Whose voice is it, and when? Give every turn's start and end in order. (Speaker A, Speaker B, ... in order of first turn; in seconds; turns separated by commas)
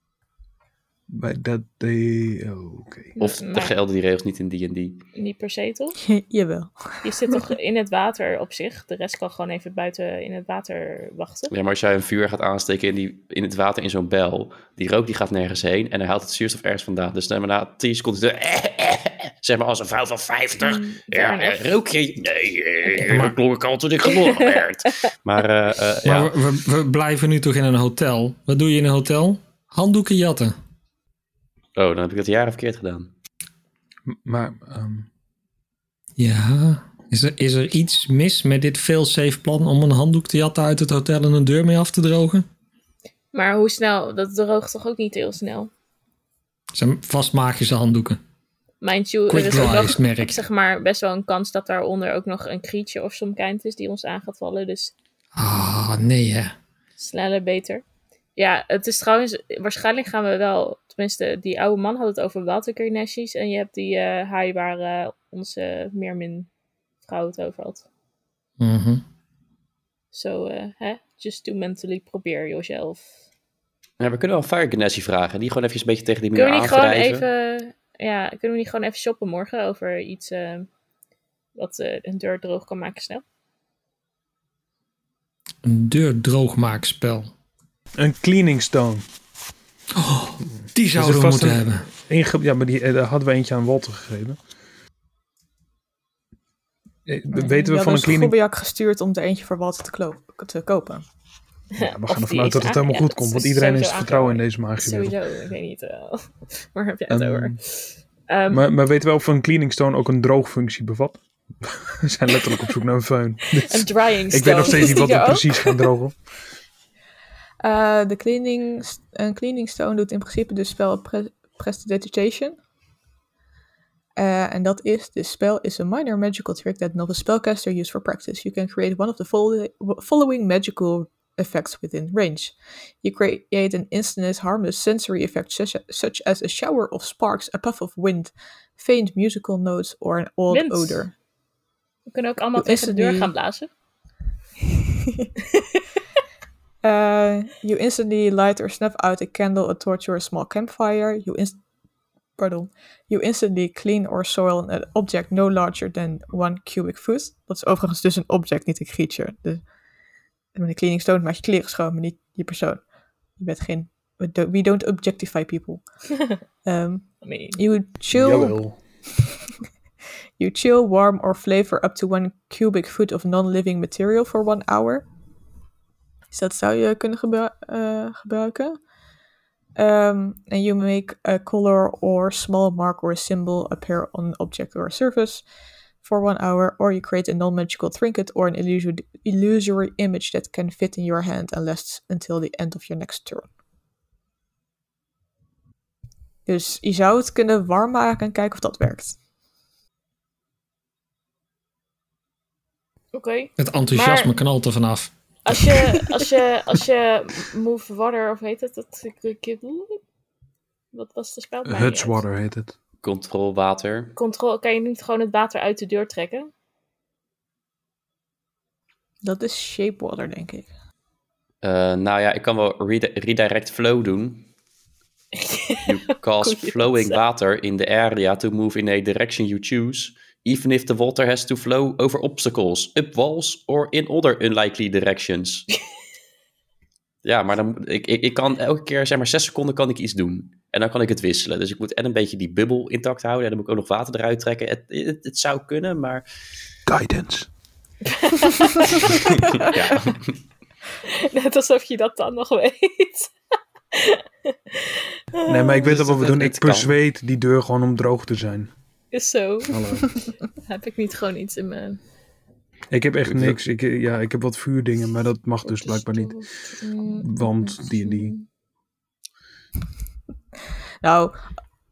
Speaker A: 1.1-3.1, Speaker B: 3.2-3.7, Speaker C: 3.2-5.0, Speaker B: 5.1-6.0, Speaker D: 6.0-6.7, Speaker B: 7.0-11.5, Speaker C: 11.5-26.3, Speaker B: 20.6-21.8, Speaker E: 23.0-23.3, Speaker B: 24.1-25.0, Speaker E: 26.0-30.5, Speaker C: 31.8-33.1, Speaker A: 34.0-35.1, Speaker E: 36.2-42.5, Speaker B: 43.3-45.7, Speaker E: 46.7-48.2, Speaker B: 48.8-54.9, Speaker E: 49.3-50.4, Speaker E: 55.4-56.5, Speaker B: 57.0-57.8, Speaker B: 58.4-66.5, Speaker B: 67.0-67.8, Speaker E: 68.6-69.0, Speaker B: 70.1-73.1, Speaker C: 74.0-77.2, Speaker B: 76.3-80.7, Speaker B: 81.5-83.2, Speaker E: 85.6-87.3, Speaker A: 88.0-89.0, Speaker E: 89.9-91.8, Speaker A: 90.9-94.4, Speaker A: 97.0-98.3, Speaker D: 97.3-101.0, Speaker B: 101.7-108.7, Speaker A: 101.8-105.2, Speaker A: 107.1-107.6, Speaker A: 108.5-116.2, Speaker B: 113.7-115.9, Speaker D: 117.6-122.6, Speaker D: 124.2-141.1, Speaker B: 140.5-141.1, Speaker B: 142.1-143.7, Speaker D: 142.6-143.3, Speaker D: 146.8-151.6, Speaker D: 152.4-159.6, Speaker D: 160.5-162.8, Speaker D: 163.4-165.8, Speaker D: 166.6-168.6, Speaker B: 167.2-167.6, Speaker A: 168.1-168.8, Speaker D: 170.4-175.0, Speaker D: 176.3-178.8, Speaker D: 179.8-185.4, Speaker D: 186.0-193.4, Speaker D: 196.4-199.2, Speaker B: 203.1-204.3, Speaker E: 203.6-206.1, Speaker B: 205.4-210.0, Speaker B: 210.9-212.2, Speaker A: 211.7-212.7, Speaker C: 213.0-214.1, Speaker B: 214.2-216.5, Speaker D: 219.2-220.7, Speaker C: 221.6-224.5, Speaker B: 225.3-227.2, Speaker C: 225.8-235.7, Speaker C: 237.2-246.2, Speaker A: 246.9-247.5, Speaker B: 248.1-249.2, Speaker C: 249.0-250.3, Speaker B: 251.0-253.3, Speaker B: 253.9-255.9, Speaker A: 255.4-258.7, Speaker C: 255.8-256.9, Speaker B: 259.1-262.0, Speaker A: 259.7-260.1, Speaker A: 262.9-266.3, Speaker C: 263.2-263.6, Speaker B: 265.6-268.4, Speaker A: 267.2-268.3, Speaker D: 271.0-271.4